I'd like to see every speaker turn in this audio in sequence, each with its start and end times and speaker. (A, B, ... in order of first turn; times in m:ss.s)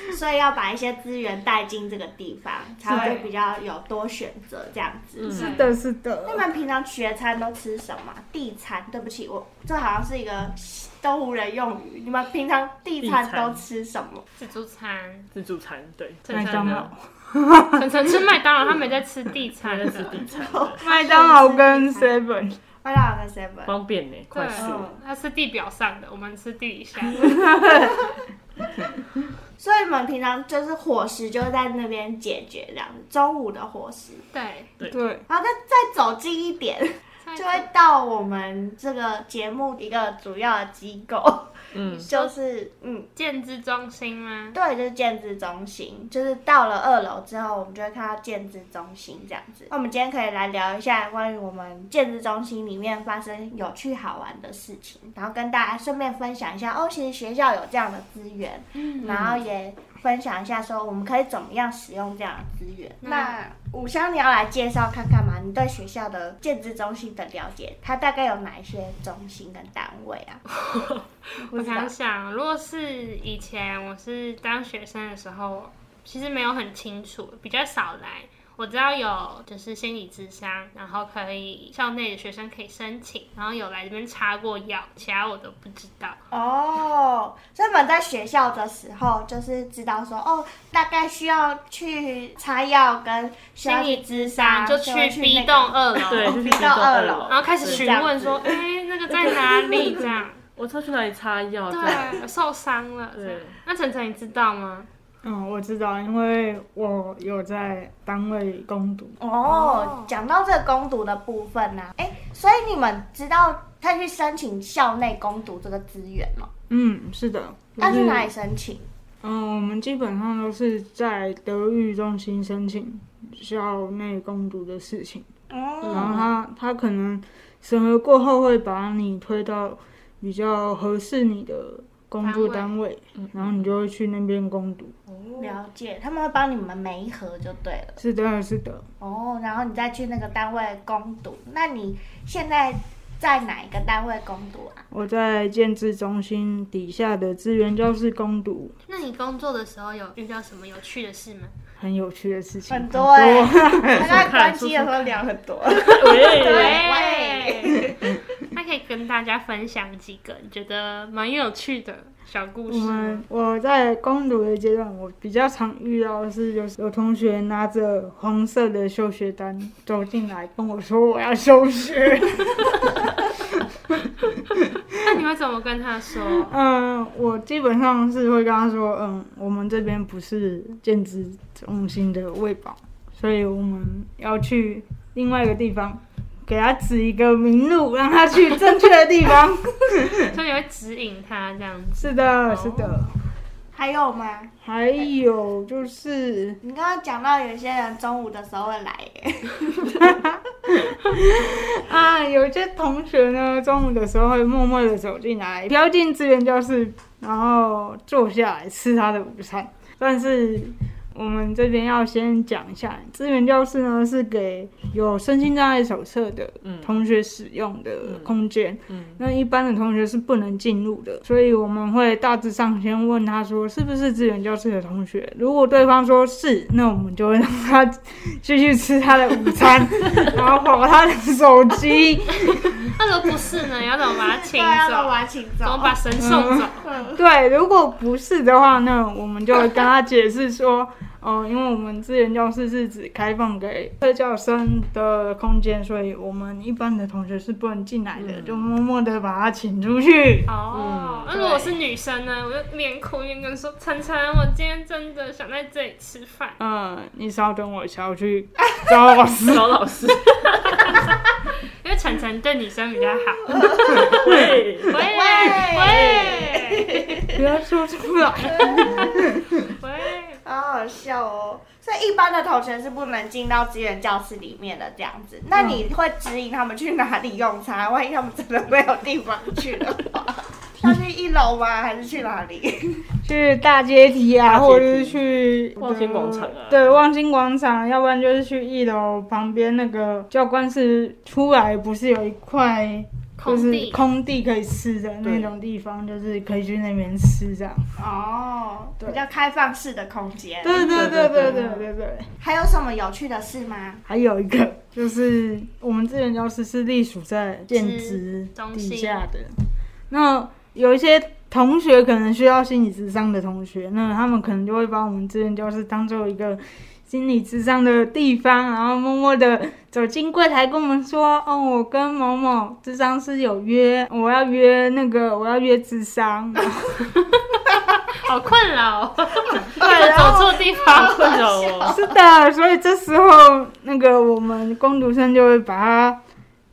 0:00.1-0:05.5 A
0:02.9-0:03.2 B
0:02.9-0:03.3 C
0:05.2-0:05.6 D
0:05.3-0:05.7 C
0:05.3-0:06.4 B
0:06.2-0:14.2 A
0:13.0-0:13.6 D
0:14.4-0:15.3 C
0:15.3-0:16.9 D
0:16.2-0:16.9 C
0:16.3-0:18.1 B
0:17.7-0:20.2 C
0:19.6-0:20.8 D
0:20.2-0:22.2 A
0:20.8-0:22.6 B
0:22.8-0:23.8 A
0:23.6-0:24.9 D
0:24.3-0:27.3 C
0:24.5-0:25.0 A
0:27.2-0:27.9 B
0:29.6-0:34.2 A
0:34.3-0:34.7 C
0:34.9-0:35.2 B
0:35.3-0:43.1 A
0:37.2-0:37.6 C
0:41.7-0:42.1 D
0:41.8-0:42.3 C
0:43.1-0:44.6 C
0:44.5-1:10.4 A
0:58.8-0:59.3 C
0:59.1-0:59.4 D
1:03.0-1:03.3 C
1:11.4-1:11.9 A
1:11.5-1:26.2 C
1:26.3-1:38.6 A
1:33.6-1:36.3 C
1:36.1-1:38.0 D
1:37.3-1:40.4 C
1:39.1-1:42.2 D
1:41.7-1:44.9 C
1:43.1-1:43.6 D
1:45.2-1:49.2 B
1:49.2-1:56.5 A
1:49.4-1:50.1 C
1:56.7-1:58.3 B
1:57.8-1:58.9 A
1:59.2-2:05.3 B
2:05.5-2:06.3 A
2:05.8-2:06.2 D
2:05.9-2:14.9 B
2:12.2-2:12.8 C
2:13.2-2:13.7 D
2:15.1-2:15.6 C
2:15.4-2:18.0 A
2:18.0-2:18.8 B
2:19.0-2:24.8 A
2:24.9-2:28.8 B
2:28.9-2:31.5 C
2:31.8-2:34.3 B
2:32.7-2:37.9 A
2:34.0-2:35.1 D
2:35.7-2:36.8 D
2:36.3-2:38.0 C
2:38.5-2:43.2 C
2:42.7-2:52.9 B
2:55.0-2:56.6 C
2:56.3-3:10.3 B
3:10.3-3:13.0 C
3:12.0-3:13.1 B
3:13.7-3:15.1 A
3:14.6-3:16.6 B
3:16.6-3:20.2 A
3:20.0-3:20.4 B
3:20.9-3:52.9 B
3:36.6-3:37.0 D
3:38.0-3:38.3 D
3:38.9-3:39.2 D
3:52.9-3:56.8 C
3:54.2-3:56.2 A
3:56.2-4:10.5 B
3:56.8-3:57.2 A
4:08.2-4:08.7 D
4:10.4-4:16.6 C
4:10.7-4:11.4 D
4:16.6-4:19.7 B
4:19.4-4:21.1 D
4:21.8-4:24.2 C
4:23.5-4:24.1 A
4:24.1-4:24.6 B
4:24.2-4:25.0 D
4:24.9-4:26.9 C
4:25.1-4:27.4 A
4:27.3-4:29.4 B
4:28.5-4:29.3 A
4:29.8-4:30.4 C
4:30.4-4:43.1 A
4:35.6-4:35.8 B
4:43.2-4:57.9 B
4:44.4-4:45.2 D
4:45.8-4:47.0 D
4:53.4-4:54.0 C
4:55.2-4:55.5 D
4:58.0-5:00.8 A
5:00.6-5:02.3 B
5:00.8-5:01.6 D
5:01.4-5:01.8 A
5:02.4-5:04.0 A
5:04.1-5:09.5 B
5:07.7-5:09.2 C
5:10.1-5:27.1 B
5:28.1-5:31.3 C
5:29.8-5:30.5 B
5:29.8-5:32.1 A
5:30.8-5:31.9 D
5:31.8-5:36.2 B